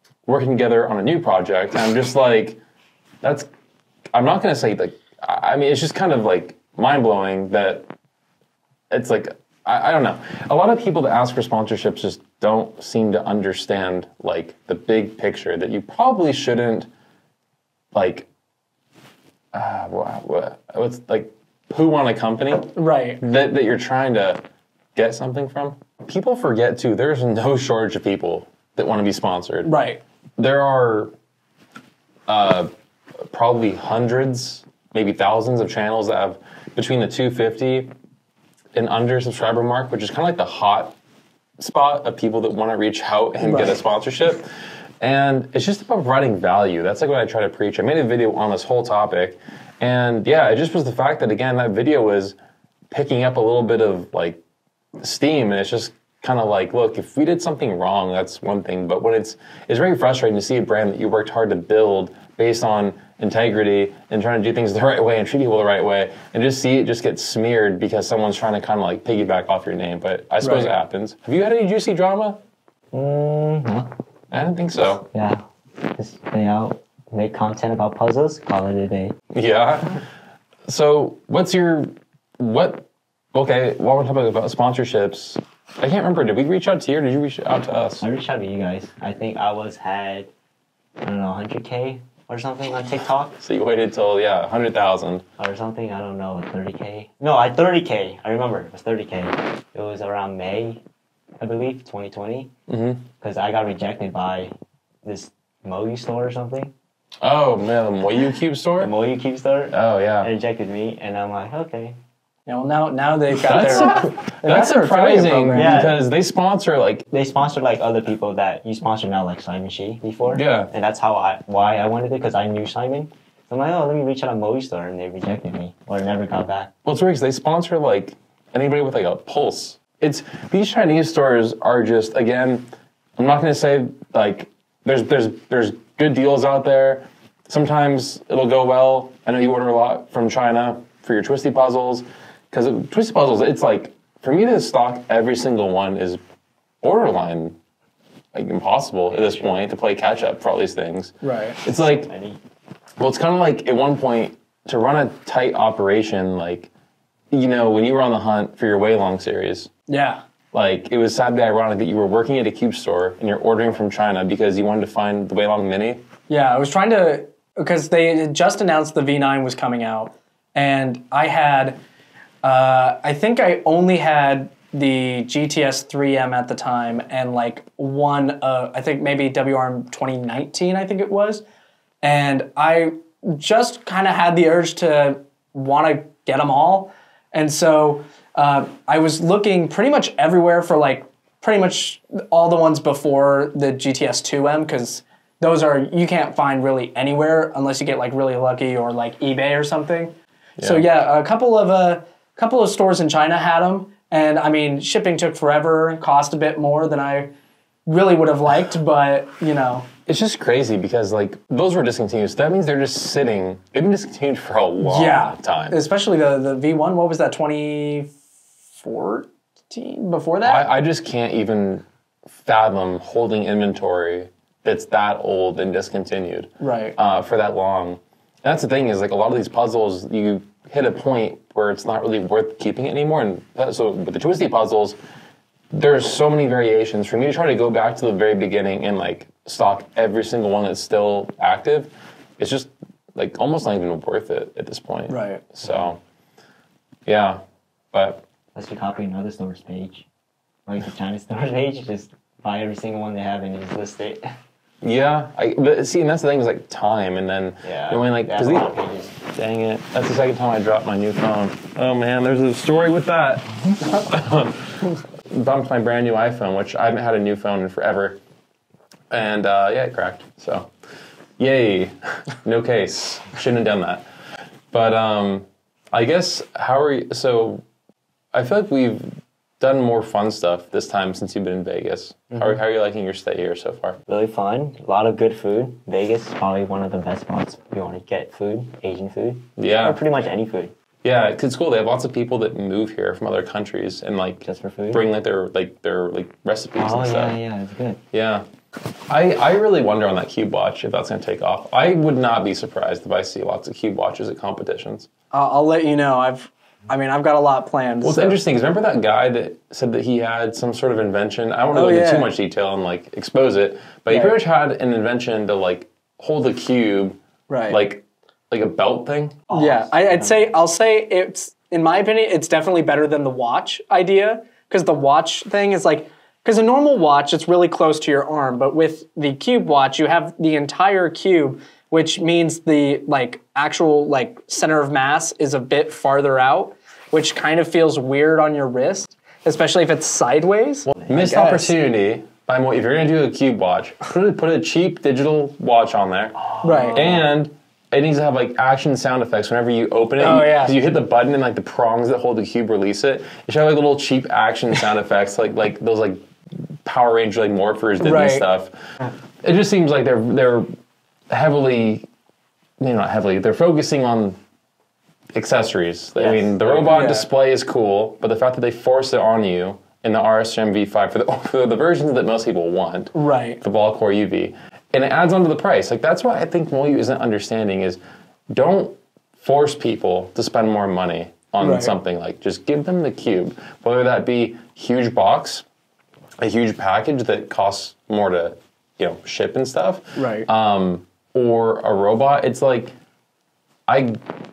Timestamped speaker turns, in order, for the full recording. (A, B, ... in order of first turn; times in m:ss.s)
0:00.2-0:02.6 A
0:03.2-0:03.5 A
0:04.1-0:07.9 A
0:08.9-0:16.9 A
0:17.9-0:18.3 A
0:19.5-0:22.7 A
0:22.7-0:23.2 B
0:23.2-0:24.4 A
0:24.9-0:29.7 A
0:29.6-0:30.0 B
0:30.4-0:31.1 A
0:32.3-0:32.7 A
0:33.3-0:37.9 A
0:38.7-0:41.0 A
0:41.6-0:44.5 A
0:43.4-0:43.8 B
0:45.0-0:52.4 A
0:52.9-0:54.4 A
0:55.0-1:12.4 A
1:10.4-1:10.7 B
1:12.9-1:13.9 C
1:14.3-1:15.0 A
1:15.0-1:15.4 C
1:15.9-1:19.2 C
1:19.3-1:20.0 A
1:20.7-1:28.0 A
1:28.0-1:30.3 C
1:31.0-1:33.4 C
1:33.4-1:35.2 A
1:35.4-1:40.8 C
1:41.4-1:42.5 C
1:42.7-1:43.0 A
1:43.2-1:44.5 C
1:45.0-1:46.7 C
1:47.2-1:48.9 A
1:48.8-1:52.0 C
1:49.7-1:50.3 A
1:52.5-1:55.9 B
1:53.4-1:57.1 A
1:55.5-1:56.0 C
1:57.1-2:06.7 C
2:00.3-2:00.7 A
2:06.8-2:12.6 A
2:13.2-2:26.2 A
2:26.8-2:27.6 A
2:28.3-2:32.1 A
2:29.1-2:29.6 C
2:31.2-2:31.6 B
2:31.8-2:32.4 C
2:33.0-2:36.7 A
2:37.3-2:39.7 A
2:39.9-2:40.2 B
2:40.5-2:46.0 A
2:46.3-2:51.8 B
2:52.4-3:01.4 B
3:02.0-3:27.3 B
3:20.6-3:20.8 A
3:27.9-3:29.9 B
3:30.0-3:35.8 A
3:34.8-3:38.1 B
3:38.8-3:40.7 B
3:40.4-3:41.8 A
3:42.4-3:55.0 A
3:46.6-3:47.0 B
3:55.7-4:06.0 A
4:05.1-4:05.4 B
4:07.0-4:07.4 A
4:07.9-4:08.2 A
4:08.5-4:10.0 C
4:10.6-4:14.3 C
4:14.8-4:28.2 A
4:17.6-4:19.2 C
4:29.1-4:30.7 A
4:31.4-4:34.0 A
4:34.7-4:37.6 A
4:38.3-4:44.0 A
4:42.3-4:42.6 C
4:44.1-4:50.7 C
4:49.6-4:50.0 A
4:51.0-4:57.4 A
4:54.4-4:55.0 C
4:56.8-4:58.0 C
4:58.1-4:58.4 A
4:59.1-5:05.1 A
5:05.3-5:08.4 B
5:08.0-5:19.4 A
5:11.7-5:12.3 B
5:14.1-5:14.4 B
5:17.5-5:17.8 B
5:19.5-5:20.5 C
5:19.5-5:41.7 B
5:40.9-5:56.3 A
5:46.4-5:47.3 C
5:46.6-5:47.0 B
5:50.2-5:50.7 B
5:56.8-5:58.7 A
5:58.0-5:58.4 B
5:59.4-6:00.7 A
6:01.3-6:02.0 A
6:02.8-6:04.4 A
6:05.3-6:18.0 A
6:06.2-6:07.1 C
6:06.9-6:07.3 B
6:13.1-6:13.6 B
6:18.5-6:25.6 A
6:21.6-6:21.9 B
6:26.4-6:32.9 A
6:30.2-6:30.5 B
6:33.9-6:34.2 A